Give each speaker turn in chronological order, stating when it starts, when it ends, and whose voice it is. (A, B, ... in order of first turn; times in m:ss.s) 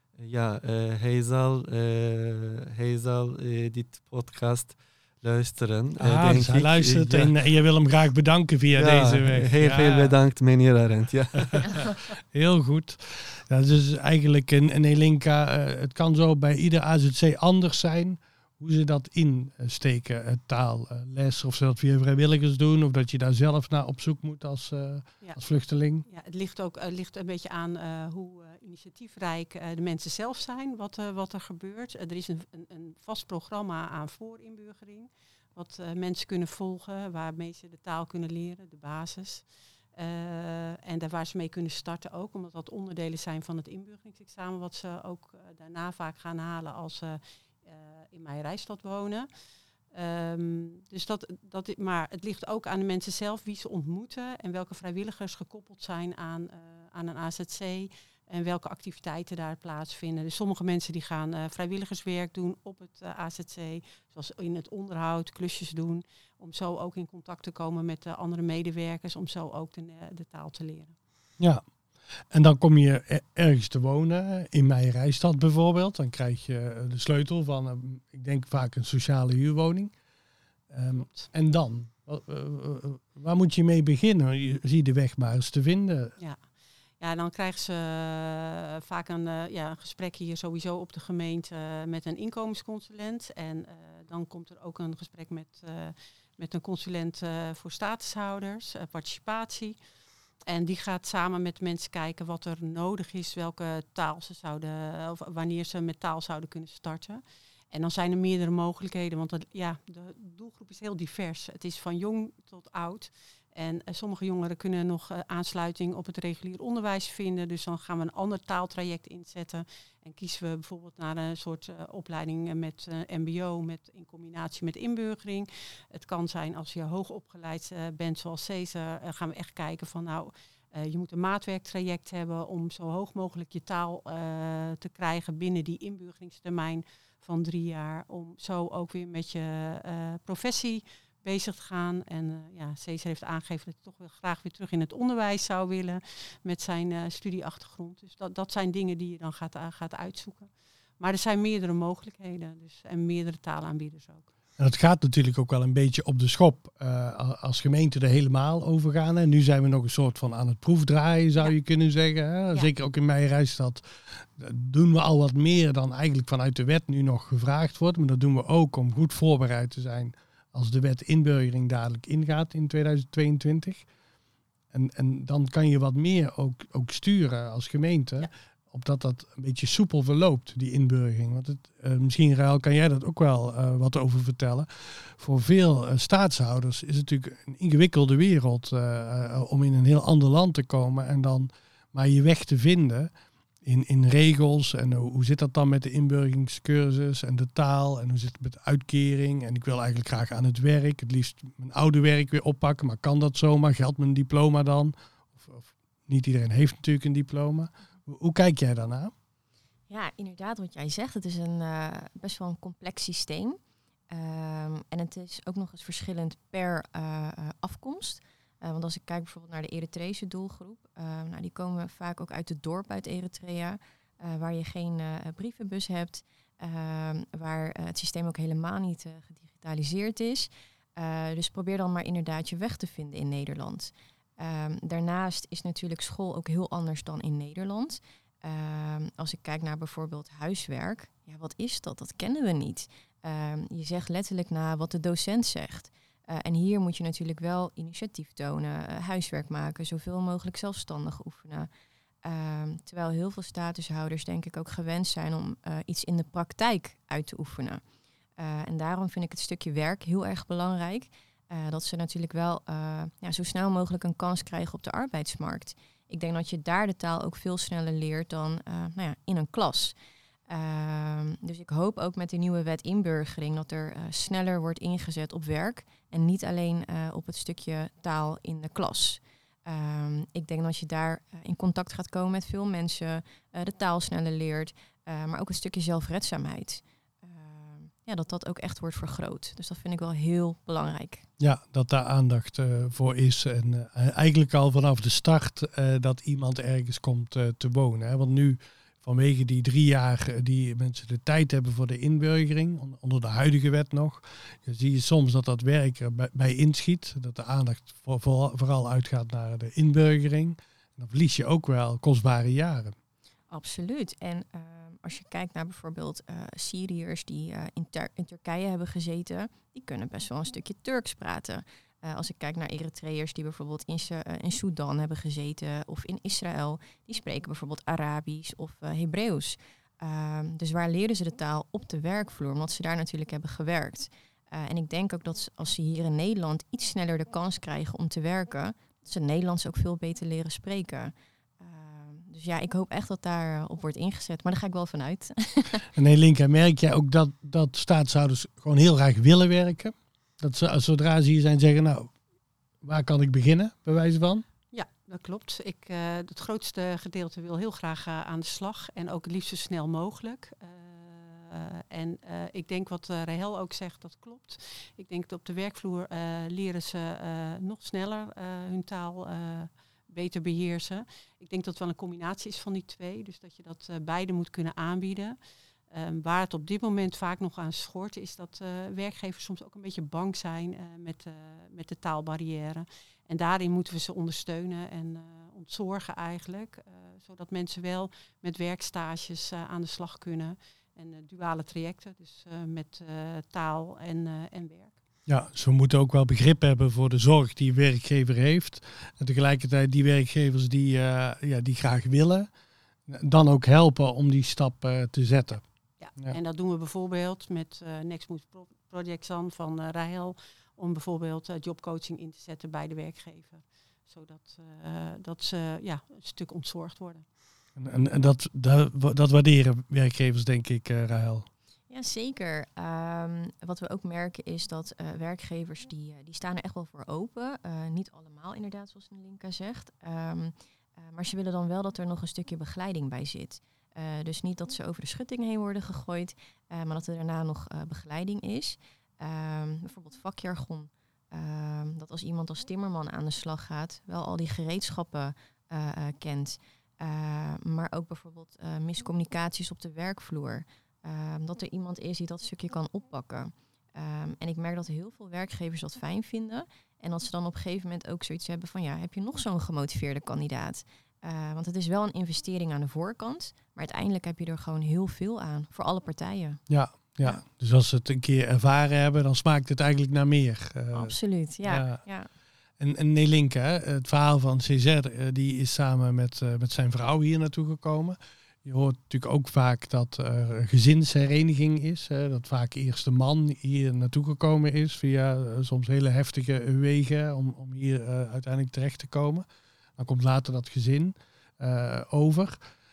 0:00.2-0:07.3 A
0:06.0-0:10.2 B
0:08.8-0:11.9 A
0:11.5-0:26.0 B
0:26.0-0:49.3 C
0:49.9-1:10.9 C
1:12.3-1:19.9 B
1:20.7-1:26.1 B
1:20.9-1:21.3 C
1:27.0-1:39.8 C
1:40.4-2:34.3 C
2:34.6-2:53.8 B
2:54.7-3:13.1 B
3:13.6-3:29.1 B
3:29.9-3:33.6 D
3:34.1-4:11.7 D
4:12.2-4:17.8 D
4:18.4-4:30.0 D
4:30.5-4:51.2 D
4:51.4-5:12.9 B
5:13.5-5:45.8 D
5:45.9-5:52.1 B
5:52.8-5:54.4 B
5:54.7-6:15.4 C
6:15.9-6:35.0 C
6:35.2-6:42.5 B
6:43.1-6:45.6 B
6:46.0-6:57.2 C
6:57.8-7:01.4 B
7:01.9-7:46.6 D
7:46.7-7:52.0 B
7:50.9-7:52.3 D
7:52.8-8:09.4 B
8:10.0-8:12.6 B